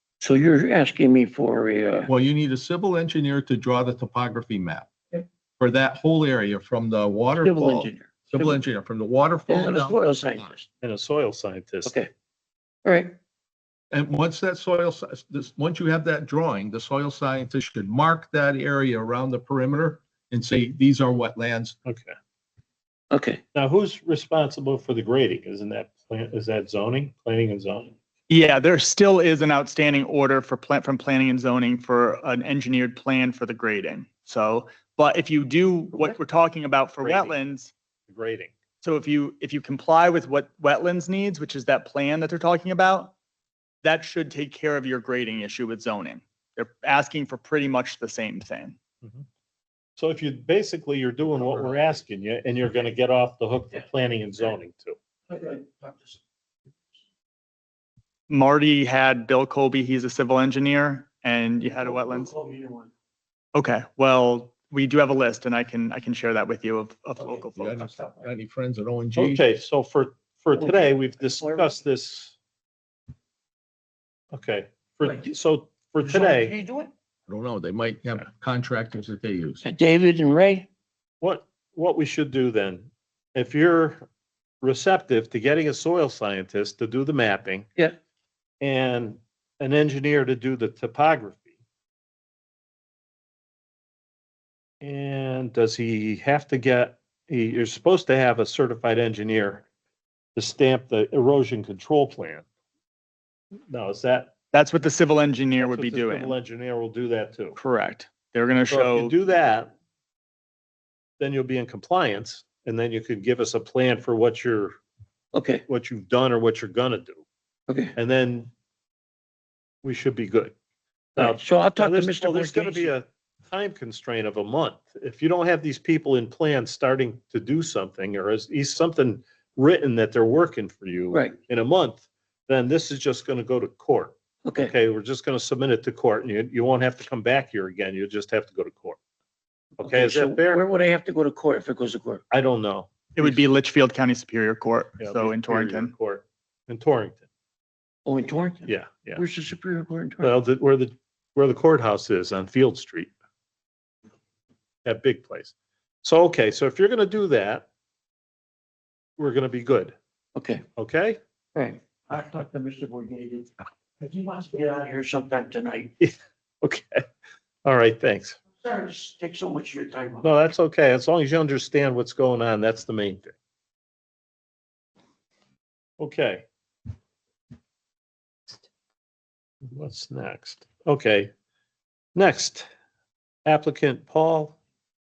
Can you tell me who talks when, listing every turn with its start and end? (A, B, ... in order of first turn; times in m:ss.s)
0:00.2-0:02.1 A
0:02.1-0:04.9 B
0:05.6-0:10.0 B
0:07.4-0:08.6 A
0:09.5-0:10.7 A
0:10.8-0:11.9 C
0:11.8-0:12.1 A
0:12.8-0:13.2 A
0:13.9-0:21.8 B
0:23.1-0:23.4 A
0:23.6-0:28.0 C
0:28.3-0:37.7 D
0:37.0-0:37.3 C
0:38.1-0:38.5 C
0:38.8-0:43.1 D
0:43.8-0:48.8 D
0:50.0-0:55.0 C
0:55.3-0:56.2 A
0:58.3-1:02.4 D
1:01.9-1:02.9 A
1:03.5-1:08.0 D
1:07.6-1:09.4 B
1:09.2-1:12.3 C
1:11.4-1:11.7 A
1:14.3-1:16.6 C
1:16.1-1:16.9 A
1:17.3-1:19.6 B
1:19.6-1:20.7 A
1:21.2-1:24.0 C
1:24.6-1:27.7 C
1:28.6-1:31.5 C
1:34.8-1:39.6 C
1:40.4-1:42.4 C
1:43.7-1:44.4 C
1:44.5-1:46.4 D
1:45.6-1:47.6 C
1:47.6-1:49.1 D
1:48.7-1:49.7 C
1:51.2-1:54.7 C
1:55.3-1:55.6 A
1:55.7-1:57.2 C
1:57.7-1:57.9 A
1:58.0-1:58.5 C
1:59.8-2:00.5 C
2:01.2-2:02.9 A
2:01.2-2:19.0 C
2:11.1-2:11.4 A
2:14.4-2:14.7 A
2:19.8-2:20.6 C
2:19.8-2:22.2 A
2:22.3-2:22.9 C
2:23.2-2:25.9 D
2:25.0-2:27.2 C
2:28.1-2:30.4 A
2:28.7-2:29.2 C
2:30.2-2:33.1 C
2:34.8-2:37.7 C
2:39.2-2:39.9 C
2:40.4-2:40.7 A
2:40.8-2:41.2 C
2:41.6-2:45.9 A
2:46.0-2:47.0 C
2:47.6-2:48.4 C
2:48.5-2:50.3 A
2:50.2-2:53.3 C
2:56.0-2:56.4 C
2:59.7-3:01.3 C
3:02.2-3:02.5 C
3:03.5-3:04.6 C